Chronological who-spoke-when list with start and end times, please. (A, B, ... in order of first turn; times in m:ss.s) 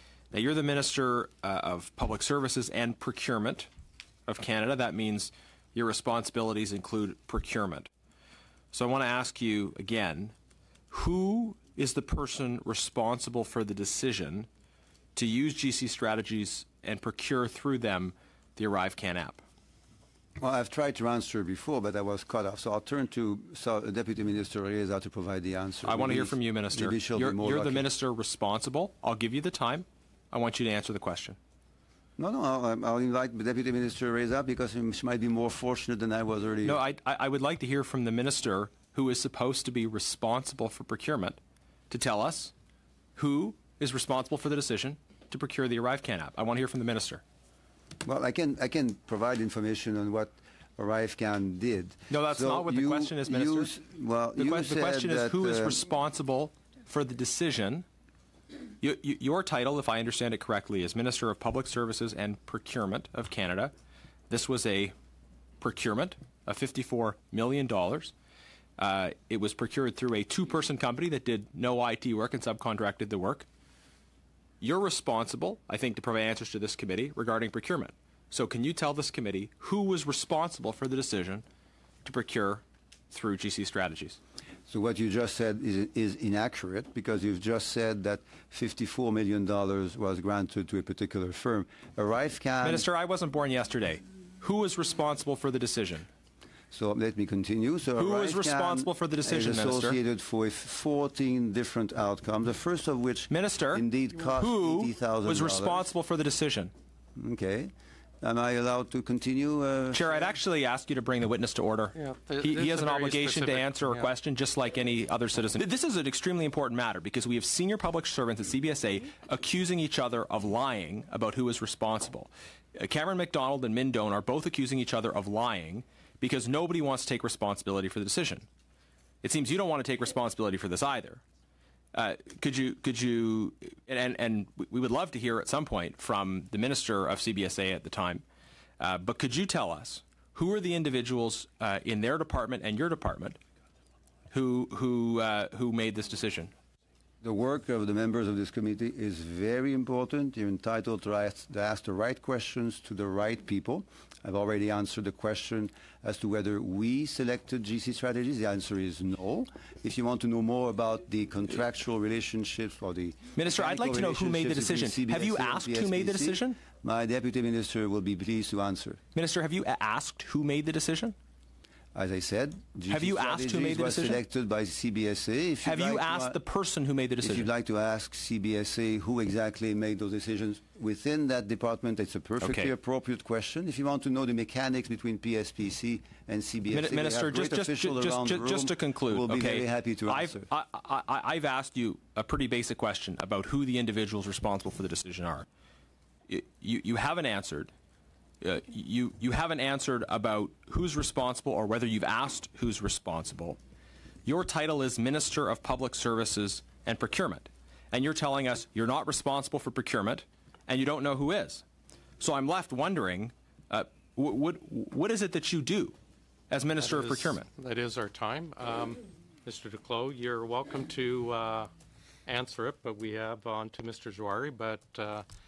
0:00.3-0:03.7 A
0:04.3-0:07.9 A
0:08.7-0:10.3 A
0:10.9-0:14.5 A
0:15.1-0:19.4 A
0:20.4-0:27.9 B
0:25.8-0:31.4 A
0:32.2-0:36.8 B
0:36.6-0:41.4 A
0:41.9-0:42.5 A
0:43.2-0:47.2 A
0:48.0-0:55.8 B
0:52.1-0:53.7 A
0:54.4-0:57.8 A
0:58.8-1:03.7 A
1:04.3-1:04.9 A
1:05.6-1:08.1 A
1:08.8-1:13.5 A
1:14.6-1:21.4 A
1:22.0-1:24.2 A
1:24.7-1:32.8 B
1:32.6-1:36.1 A
1:36.7-1:45.8 B
1:38.0-1:40.0 A
1:43.3-1:46.7 A
1:47.2-1:50.2 B
1:49.9-2:08.5 A
1:52.0-1:54.0 C
2:09.2-2:11.2 A
2:11.9-2:18.2 A
2:18.8-2:23.4 A
2:24.3-2:26.5 A
2:27.2-2:49.0 B
2:43.4-2:46.6 A
2:49.2-2:51.2 A
2:51.9-2:56.4 B
2:52.9-2:54.2 A
2:55.6-2:57.5 A
2:57.2-3:10.5 B
3:02.4-3:02.7 A
3:06.7-3:15.4 A
3:16.3-3:17.7 A
3:18.4-3:23.6 A
3:24.2-3:31.6 A
3:32.2-3:36.0 A
3:36.5-3:37.5 A
3:36.8-3:41.7 C
3:42.2-3:45.2 C